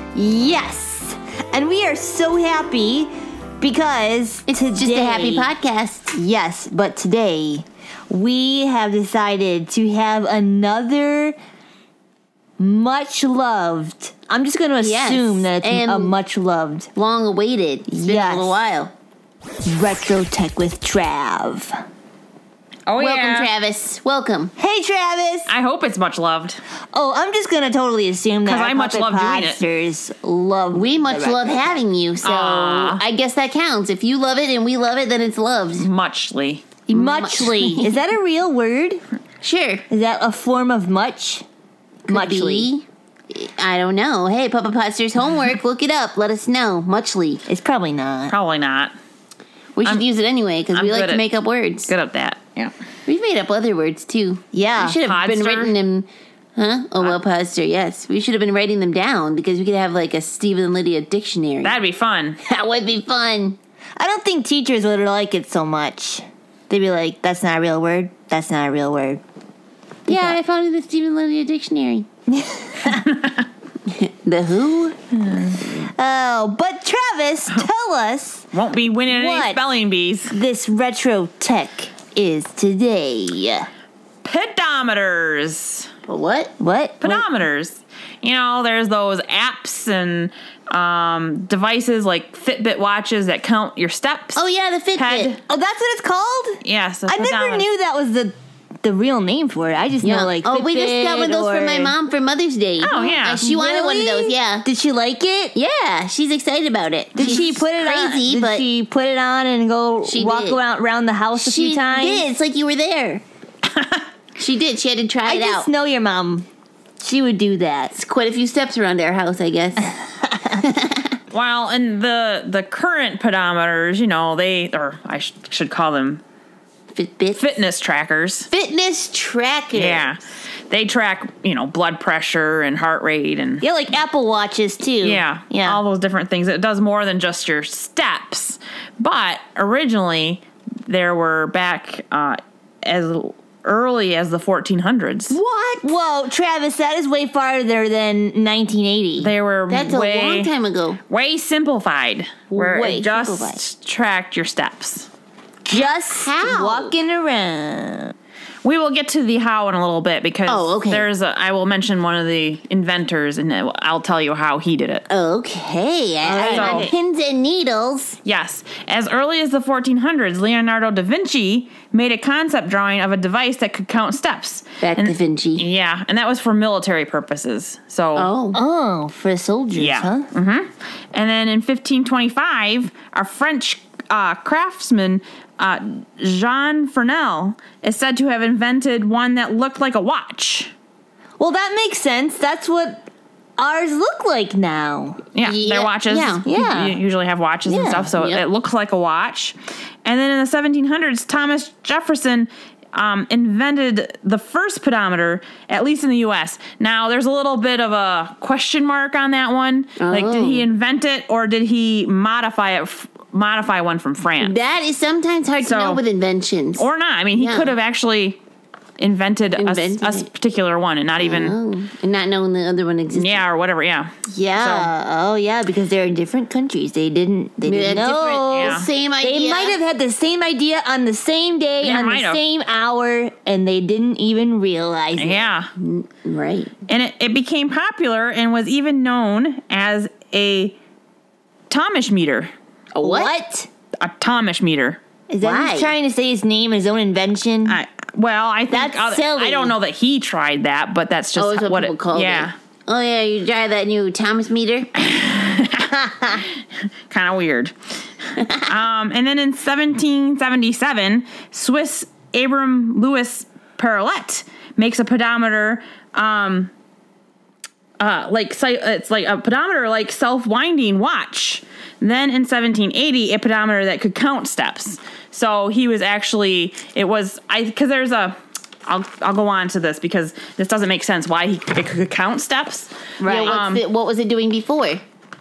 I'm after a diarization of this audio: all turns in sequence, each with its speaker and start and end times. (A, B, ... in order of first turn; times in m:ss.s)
0:00.1-0:05.5 A
0:04.5-0:06.1 B
0:06.1-0:11.4 A
0:12.6-0:16.9 A
0:14.8-0:16.1 B
0:16.9-0:18.9 B
0:17.9-0:18.6 A
0:19.6-0:21.8 A
0:22.9-0:23.5 C
0:23.0-0:24.5 B
0:24.6-0:25.5 A
0:25.5-0:26.6 C
0:26.9-0:31.8 A
0:28.4-0:29.6 C
0:30.7-0:35.9 B
0:32.2-0:33.0 C
0:35.8-0:36.7 C
0:36.9-0:39.0 A
0:36.9-0:38.0 B
0:39.4-0:39.8 B
0:39.9-0:41.4 A
0:42.1-0:42.7 A
0:42.1-0:47.4 B
0:47.5-0:48.3 A
0:48.3-0:48.9 C
0:49.8-0:51.9 B
0:50.7-0:51.2 C
0:51.9-0:52.7 C
0:53.1-1:01.8 B
0:54.5-0:55.0 A
0:55.0-0:55.7 C
1:01.6-1:02.4 C
1:02.4-1:03.6 B
1:04.0-1:09.2 A
1:10.1-1:12.0 B
1:10.1-1:10.4 A
1:12.3-1:13.0 A
1:13.0-1:13.4 C
1:13.9-1:15.0 B
1:15.3-1:18.5 A
1:18.5-1:20.3 C
1:19.1-1:19.6 A
1:20.3-1:23.7 A
1:24.2-1:25.9 C
1:26.1-1:26.5 B
1:26.6-1:27.2 A
1:27.0-1:34.4 C
1:34.3-1:35.4 B
1:34.9-1:35.4 C
1:35.4-1:41.9 A
1:36.6-1:37.6 C
1:40.0-1:44.6 B
1:42.8-1:43.4 C
1:43.4-1:45.6 A
1:45.5-1:48.7 B
1:47.1-1:52.2 A
1:50.0-1:50.6 B
1:51.4-1:53.2 B
1:53.8-1:54.0 C
1:54.4-1:55.7 B
1:55.2-1:56.4 A
1:57.0-1:57.9 A
1:57.9-2:01.1 B
2:01.3-2:06.2 C
2:06.9-2:07.5 B
2:07.4-2:08.5 C
2:08.5-2:10.1 B
2:09.7-2:13.6 C
2:13.6-2:15.8 A
2:15.0-2:25.4 C
2:25.3-2:25.9 B
2:25.8-2:29.3 A
2:29.2-2:30.5 C
2:29.7-2:31.0 B
2:31.1-2:35.1 C
2:32.5-2:33.6 A
2:35.7-2:36.9 B
2:35.7-2:38.1 A
2:38.6-2:45.0 C
2:40.5-2:41.1 B
2:45.1-2:48.2 B
2:46.2-2:46.9 A
2:46.5-2:46.9 C
2:48.2-2:58.3 C
2:54.8-2:55.7 B
2:58.2-2:58.6 B
2:58.5-3:00.3 A
2:59.7-3:10.7 C
3:11.4-3:15.3 A
3:15.3-3:34.6 C
3:15.4-3:16.4 B
3:16.4-3:17.0 A
3:17.7-3:18.1 A
3:18.1-3:18.4 B
3:30.0-3:30.6 B
3:34.4-3:37.7 B
3:35.6-3:36.0 C
3:36.8-3:38.4 C
3:39.0-3:41.5 C
3:39.6-3:40.3 B
3:41.2-3:43.4 B
3:43.1-3:44.9 C
3:44.3-3:55.4 A
3:47.6-3:49.8 B
3:48.5-3:48.9 C
3:51.8-3:52.4 C
3:55.2-3:55.7 C
3:55.8-3:56.8 B
3:56.9-4:00.8 C
4:01.7-4:02.5 C
4:02.9-4:03.3 B
4:03.0-4:03.7 A
4:04.0-4:05.0 C
4:05.3-4:07.8 A
4:05.4-4:05.9 B
4:07.6-4:12.5 C
4:08.7-4:09.7 A
4:11.4-4:14.9 B
4:15.0-4:16.5 C
4:17.1-4:17.7 C
4:18.6-4:26.7 C
4:28.0-4:42.9 C
4:43.2-4:43.6 A
4:43.2-4:45.0 B
4:43.4-4:43.8 C